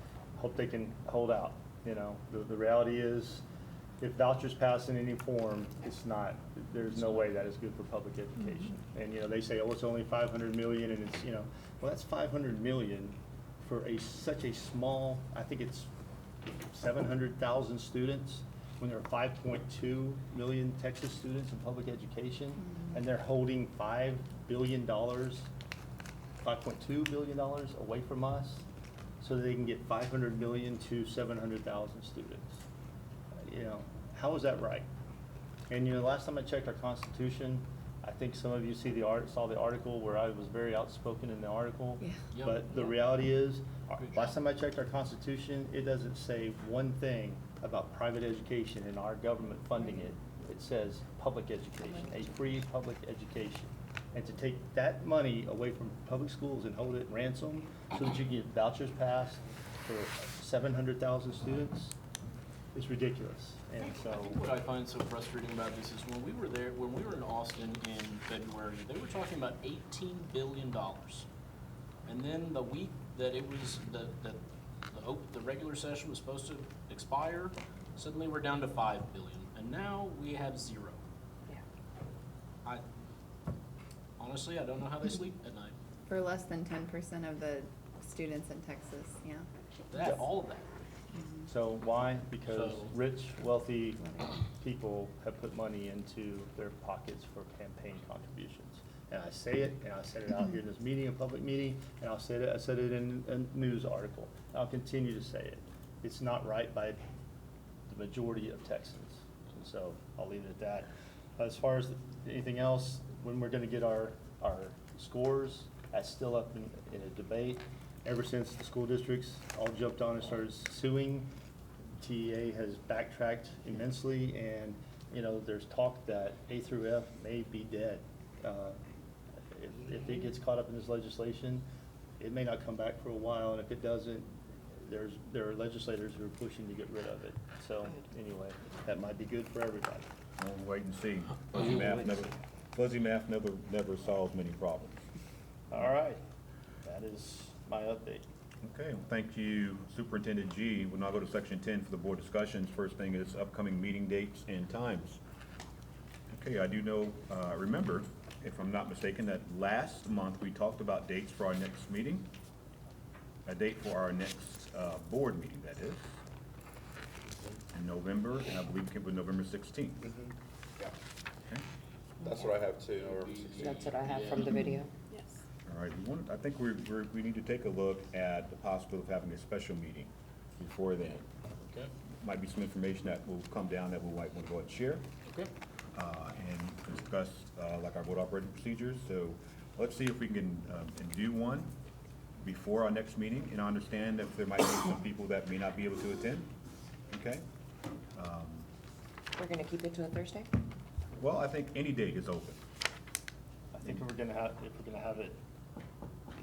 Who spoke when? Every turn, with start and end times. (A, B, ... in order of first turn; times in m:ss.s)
0:00.4-0:03.4 A
0:04.0-0:15.9 A
0:16.7-0:25.5 A
0:26.4-0:28.6 A
0:29.2-0:32.6 A
0:33.4-0:34.9 A
0:35.7-1:02.0 A
0:42.3-0:43.1 B
0:44.0-0:44.4 B
1:02.7-1:04.4 A
1:03.8-1:11.3 B
1:12.0-1:14.4 B
1:14.9-1:21.0 B
1:24.2-1:25.8 B
1:26.1-1:29.5 C
1:29.9-1:30.7 B
1:31.1-1:31.5 C
1:31.5-1:47.0 A
1:32.5-1:32.9 B
1:47.9-2:01.3 A
2:02.0-2:08.8 A
2:09.5-2:11.6 A
2:12.2-2:20.0 A
2:20.4-2:25.0 D
2:25.7-2:26.2 A
2:26.8-2:28.2 A
2:28.6-2:35.2 D
2:36.3-2:42.3 D
2:43.4-2:46.1 D
2:47.7-2:50.1 D
2:50.0-2:50.9 E
2:52.2-2:53.7 E
2:52.9-2:54.6 B
2:53.6-2:54.9 F
2:55.6-3:01.2 D
3:02.2-3:05.0 D
3:05.9-3:11.7 D
3:12.4-3:16.5 D
3:17.1-3:17.4 D
3:18.1-3:18.7 D
3:19.4-3:20.5 F
3:21.2-3:22.6 D
3:23.7-3:25.4 A